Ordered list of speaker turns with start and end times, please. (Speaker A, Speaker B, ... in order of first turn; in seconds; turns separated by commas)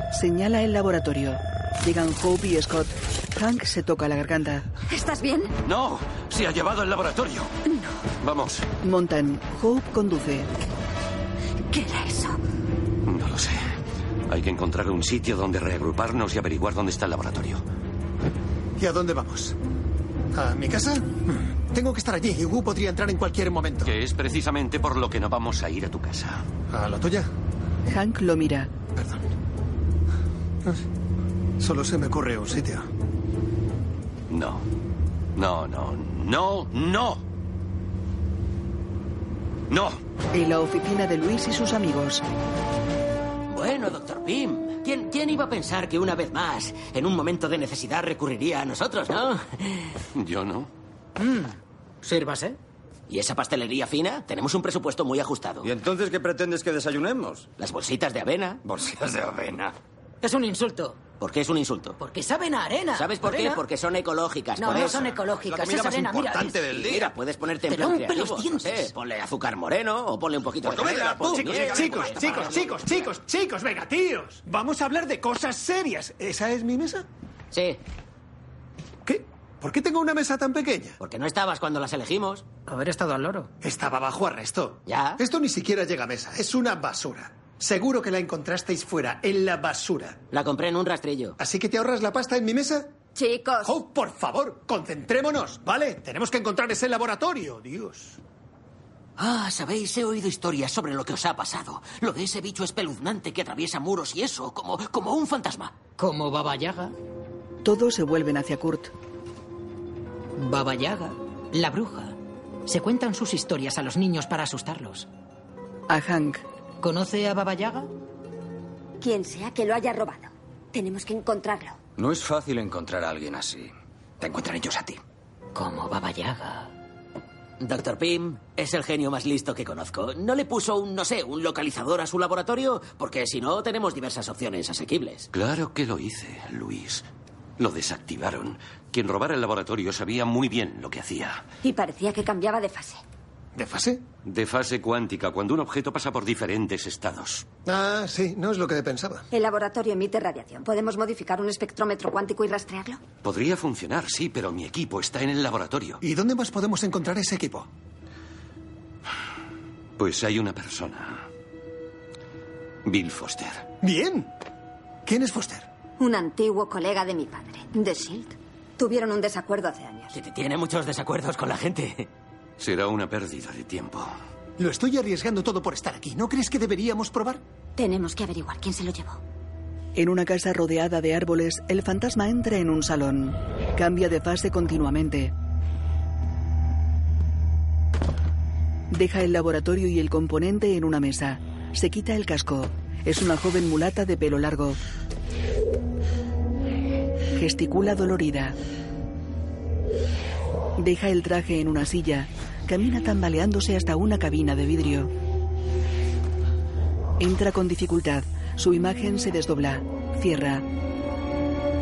Speaker A: 0.1-4.7, Speaker B: 4.9-5.5, Speaker C: 5.6-7.5, Speaker B: 7.7-8.0, Speaker C: 8.2-8.7, Speaker A: 8.8-10.5, Speaker B: 11.7-12.4, Speaker C: 13.1-13.6, Speaker C: 14.3-17.6, Speaker D: 18.8-19.6, Speaker D: 20.3-23.9, Speaker C: 23.9-26.4, Speaker D: 26.7-27.3, Speaker A: 27.9-28.7, Speaker D: 28.9-29.2, Speaker D: 31.6-32.9, Speaker C: 34.3-34.6, Speaker C: 35.4-37.2, Speaker C: 39.7-40.0, Speaker A: 40.3-42.2, Speaker E: 43.5-49.9, Speaker C: 50.1-50.7, Speaker F: 51.2-52.6, Speaker E: 53.1-55.7, Speaker G: 55.6-57.5, Speaker E: 57.6-58.6, Speaker G: 58.6-59.7, Speaker F: 60.2-61.0, Speaker E: 61.2-62.0, Speaker F: 62.0-63.6, Speaker E: 62.9-65.1, Speaker F: 64.6-66.7, Speaker G: 65.6-67.0, Speaker E: 66.6-72.8, Speaker F: 67.7-68.7, Speaker D: 71.3-77.1, Speaker E: 77.5-77.8, Speaker D: 79.0-81.0, Speaker E: 81.0-82.5, Speaker F: 82.7-83.5, Speaker D: 83.6-90.2, Speaker E: 84.9-85.2, Speaker E: 90.3-91.3, Speaker D: 91.4-92.9, Speaker B: 93.1-93.7, Speaker D: 93.6-98.2, Speaker E: 99.2-105.8, Speaker F: 106.0-106.9, Speaker A: 107.6-108.9, Speaker F: 110.4-115.1, Speaker A: 115.9-116.4, Speaker F: 116.8-117.9, Speaker B: 119.0-121.8, Speaker G: 122.0-122.8, Speaker F: 125.5-126.7, Speaker E: 127.6-135.3, Speaker C: 135.3-137.1, Speaker C: 137.6-141.4, Speaker B: 141.6-143.0, Speaker D: 143.6-144.0, Speaker C: 144.2-147.4, Speaker D: 147.7-149.3, Speaker B: 149.3-153.0, Speaker C: 153.2-156.0, Speaker D: 156.0-157.7, Speaker C: 160.0-161.2, Speaker C: 162.8-163.6, Speaker D: 163.8-164.3, Speaker D: 165.1-165.7, Speaker B: 166.0-170.1, Speaker E: 170.1-172.1, Speaker C: 172.6-174.1, Speaker D: 174.6-177.4, Speaker B: 177.8-179.2, Speaker A: 179.9-185.3, Speaker A: 188.9-194.8, Speaker A: 197.3-198.6, Speaker A: 200.8-205.1, Speaker A: 207.2-210.6